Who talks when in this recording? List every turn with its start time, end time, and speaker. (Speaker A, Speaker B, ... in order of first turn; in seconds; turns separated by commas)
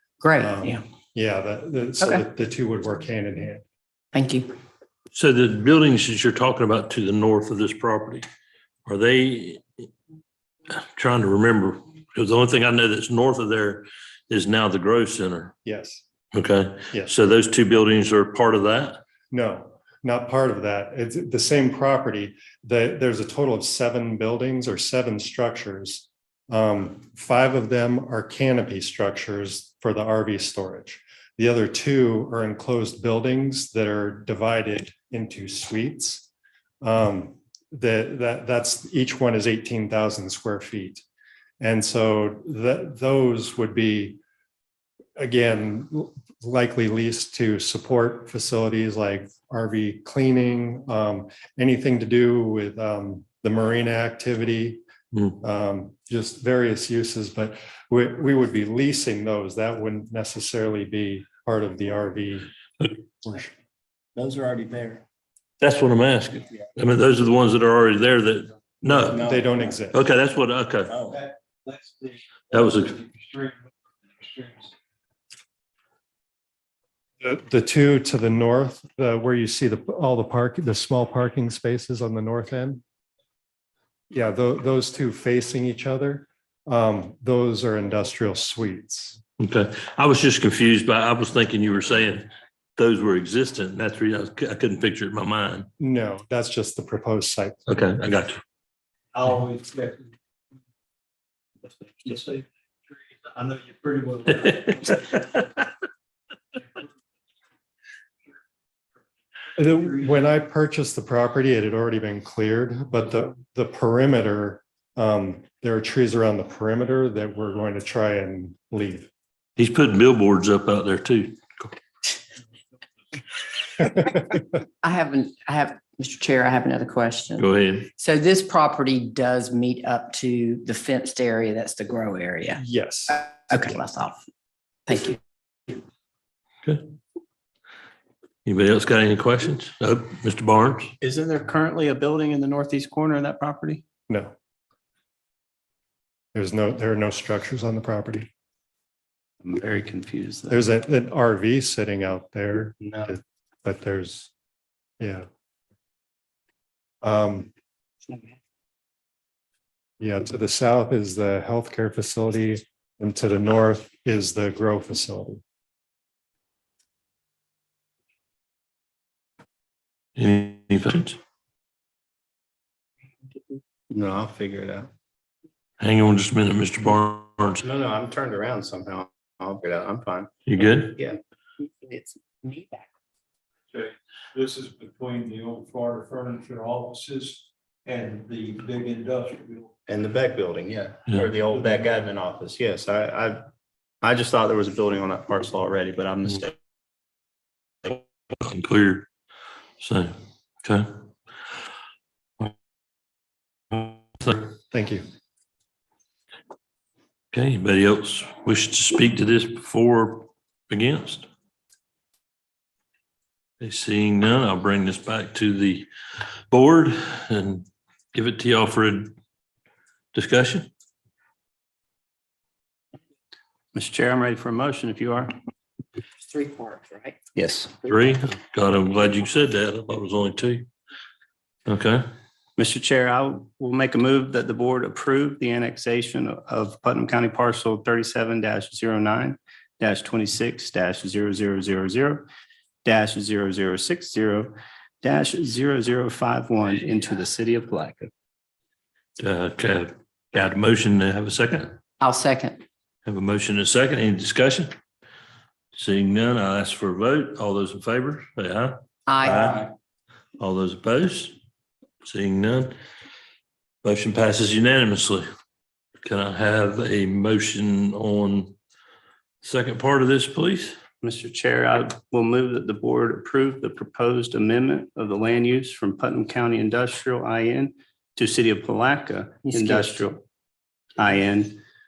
Speaker A: 0.2-0.8, Speaker B: 0.4-3.6, Speaker A: 4.1-4.5, Speaker C: 5.1-8.2, Speaker C: 8.9-9.9, Speaker C: 10.7-15.5, Speaker B: 15.7-16.0, Speaker C: 16.3-19.0, Speaker B: 19.3-36.3, Speaker B: 36.8-41.0, Speaker B: 41.6-44.2, Speaker B: 45.2-54.8, Speaker C: 55.1-55.4, Speaker B: 55.4-62.5, Speaker B: 63.2-63.5, Speaker D: 64.2-65.0, Speaker C: 65.6-69.3, Speaker B: 69.1-70.0, Speaker C: 69.9-71.0, Speaker E: 71.7-72.2, Speaker C: 72.5-73.0, Speaker E: 72.9-73.6, Speaker E: 74.2-74.7, Speaker B: 77.2-82.8, Speaker B: 84.1-89.2, Speaker C: 89.4-95.7, Speaker B: 95.8-97.6, Speaker C: 97.7-98.4, Speaker E: 99.2-100.1, Speaker E: 102.0-102.5, Speaker E: 103.3-105.0, Speaker C: 104.4-105.6, Speaker B: 109.6-119.1, Speaker C: 119.6-121.7, Speaker A: 124.8-134.2, Speaker C: 127.4-127.9, Speaker B: 132.6-133.3, Speaker A: 134.9-135.2, Speaker C: 138.4-140.9, Speaker D: 141.0-143.8, Speaker B: 144.1-144.3, Speaker B: 146.3-148.3, Speaker D: 149.4-150.6, Speaker B: 150.5-154.3, Speaker D: 152.8-153.1, Speaker B: 155.0-155.3, Speaker B: 157.0-157.5, Speaker B: 160.0-165.4, Speaker C: 170.2-171.2, Speaker D: 173.9-174.9, Speaker C: 175.8-177.6, Speaker D: 177.6-180.3, Speaker C: 180.5-181.0, Speaker A: 181.7-182.9, Speaker E: 183.7-189.7, Speaker D: 189.9-193.5, Speaker E: 191.5-191.9, Speaker D: 194.0-196.6, Speaker C: 197.8-199.1, Speaker C: 199.8-200.9, Speaker C: 203.7-204.5, Speaker B: 204.7-205.1, Speaker C: 207.3-211.3, Speaker C: 213.6-215.9, Speaker C: 216.5-219.1, Speaker C: 220.1-220.7, Speaker D: 223.7-225.3, Speaker A: 226.2-227.2, Speaker D: 227.4-227.8, Speaker C: 227.8-230.7, Speaker C: 231.7-232.0, Speaker D: 232.6-242.3, Speaker D: 242.8-248.1, Speaker C: 249.2-251.8, Speaker A: 252.0-252.6, Speaker C: 253.1-254.7, Speaker C: 255.7-259.7, Speaker A: 259.1-259.6, Speaker C: 260.4-261.4, Speaker C: 262.0-262.7, Speaker C: 263.8-265.2, Speaker C: 266.0-268.6, Speaker C: 269.4-270.8, Speaker D: 271.0-280.2, Speaker A: 279.5-279.9, Speaker D: 281.0-281.6